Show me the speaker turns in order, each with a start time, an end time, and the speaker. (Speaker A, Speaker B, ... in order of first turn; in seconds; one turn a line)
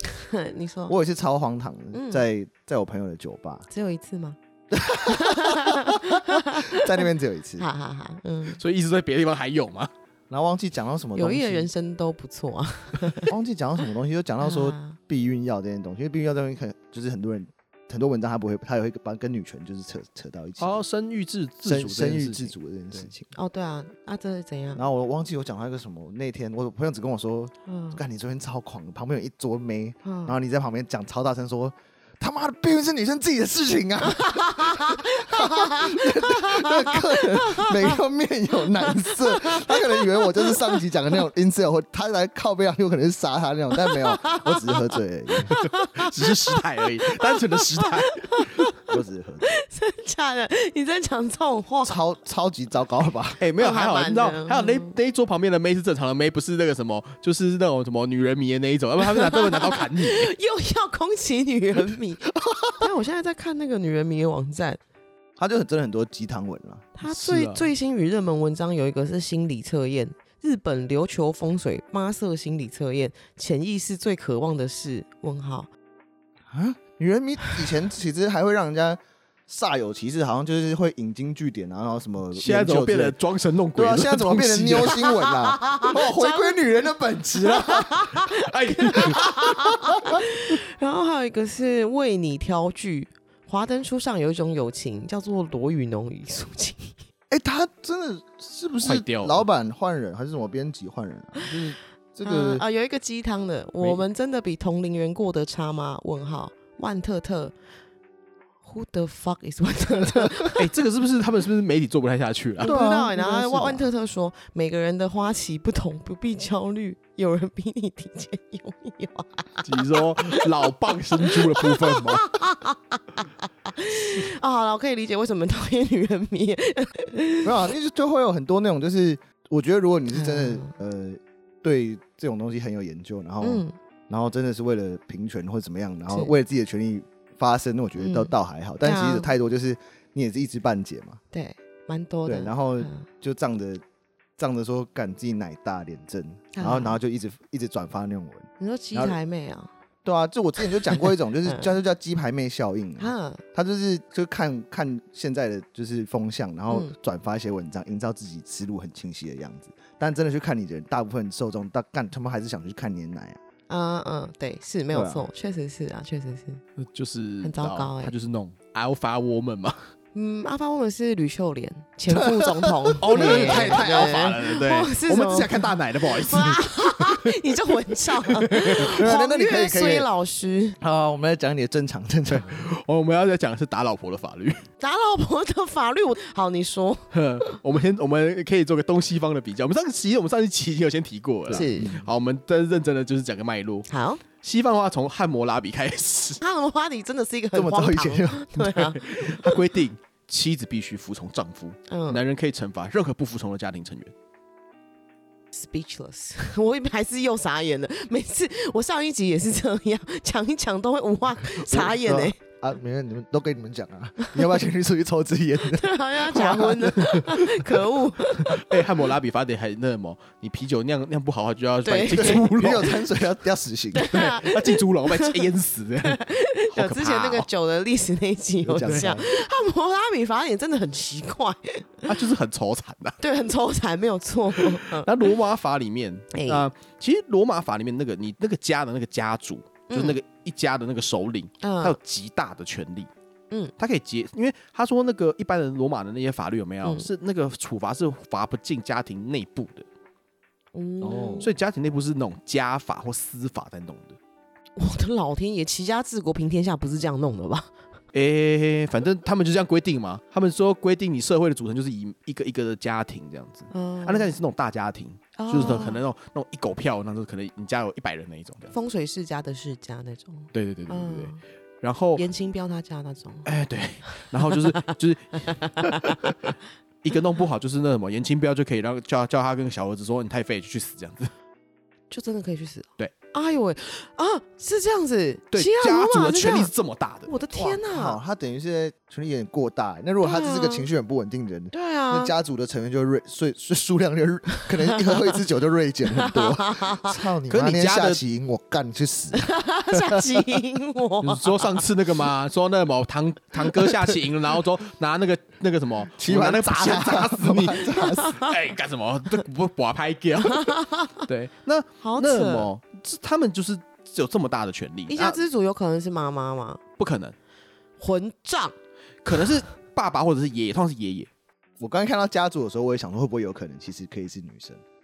Speaker A: 0.1-1.0
Speaker B: 0.9-3.6
Speaker A: 1.9-2.2
Speaker A: 3.7-4.4
Speaker B: 4.7-7.7
Speaker A: 4.9-7.0
Speaker A: 7.6-8.6
Speaker C: 8.6-9.9
Speaker B: 10.3-11.7
Speaker A: 11.2-13.3
Speaker B: 13.3-20.8
Speaker A: 14.4-15.0
Speaker C: 20.6-23.1
Speaker B: 21.6-23.3
Speaker A: 23.3-24.8
Speaker B: 24.7-45.6
Speaker A: 27.7-28.0
Speaker A: 30.0-30.4
Speaker A: 34.1-38.0
Speaker A: 38.9-40.8
Speaker A: 43.7-48.8
Speaker C: 46.0-48.5
Speaker B: 48.9-49.6
Speaker A: 49.5-52.0
Speaker B: 51.8-53.4
Speaker C: 53.4-60.3
Speaker A: 53.6-54.9
Speaker A: 59.0-62.2
Speaker B: 62.5-62.8
Speaker A: 62.8-64.8
Speaker B: 65.4-66.9
Speaker A: 67.0-75.7
Speaker C: 67.0-67.7
Speaker B: 76.5-83.2
Speaker C: 82.3-85.5
Speaker B: 83.8-88.1
Speaker A: 85.6-86.6
Speaker A: 87.4-97.0
Speaker C: 88.3-89.8
Speaker B: 97.3-102.6
Speaker C: 98.8-99.4
Speaker A: 102.2-107.5
Speaker A: 108.6-110.6
Speaker C: 110.5-112.8
Speaker B: 112.6-113.9
Speaker A: 112.6-127.7
Speaker C: 119.6-122.3
Speaker B: 127.4-141.2
Speaker A: 130.1-130.8
Speaker A: 133.4-133.8
Speaker A: 136.1-136.3
Speaker A: 138.0-138.3
Speaker A: 138.8-139.3
Speaker A: 141.3-143.1
Speaker B: 142.2-143.8
Speaker B: 144.4-149.2
Speaker A: 146.5-147.0
Speaker A: 148.6-149.7
Speaker B: 150.1-163.4
Speaker A: 151.4-151.7
Speaker A: 153.0-153.4
Speaker A: 163.7-166.6
Speaker B: 164.9-165.3
Speaker C: 166.8-169.9
Speaker A: 167.4-168.1
Speaker A: 170.1-180.8
Speaker B: 172.1-174.2
Speaker C: 173.0-177.7
Speaker C: 178.2-178.7
Speaker B: 178.8-180.1
Speaker B: 180.8-182.6
Speaker C: 182.3-184.6
Speaker A: 184.8-187.6
Speaker C: 187.1-193.9
Speaker A: 191.5-191.9
Speaker B: 191.5-192.1
Speaker A: 193.9-194.2
Speaker C: 194.4-196.4
Speaker A: 196.4-199.6
Speaker B: 197.5-198.6
Speaker C: 198.6-204.1
Speaker A: 201.9-202.2
Speaker A: 205.5-212.4
Speaker B: 211.7-217.0
Speaker A: 215.7-218.8
Speaker C: 218.4-223.1
Speaker A: 221.8-222.5
Speaker B: 222.1-224.2
Speaker A: 223.9-225.4
Speaker C: 224.0-226.2
Speaker A: 226.0-232.2
Speaker C: 226.7-227.5
Speaker B: 228.6-229.3
Speaker C: 228.8-229.2
Speaker C: 232.1-233.2
Speaker A: 233.2-235.1
Speaker C: 234.8-243.1
Speaker A: 236.3-236.7
Speaker A: 239.9-240.2
Speaker A: 241.6-241.9
Speaker C: 243.8-249.8
Speaker A: 250.7-251.5
Speaker B: 251.0-251.5
Speaker C: 251.4-254.2
Speaker A: 254.8-257.7
Speaker C: 258.1-268.7
Speaker A: 263.7-264.3
Speaker A: 265.4-266.0
Speaker A: 268.7-271.4
Speaker C: 270.5-272.2
Speaker A: 272.1-273.5
Speaker C: 273.4-276.3
Speaker A: 274.1-274.7
Speaker A: 275.4-276.3
Speaker C: 277.0-281.3
Speaker A: 282.1-286.7
Speaker C: 285.5-287.3
Speaker A: 287.2-288.2
Speaker B: 287.5-300.6
Speaker A: 290.2-290.9
Speaker A: 291.7-292.3
Speaker A: 294.9-295.3
Speaker A: 296.1-297.2
Speaker C: 297.5-298.2
Speaker A: 299.3-301.9
Speaker C: 301.2-315.4
Speaker B: 303.7-304.2
Speaker B: 306.1-308.4
Speaker A: 307.7-308.5
Speaker A: 310.4-311.2
Speaker A: 312.0-312.7
Speaker A: 315.1-316.8
Speaker C: 317.0-317.3
Speaker A: 318.0-318.8
Speaker C: 319.2-321.3
Speaker B: 321.8-324.8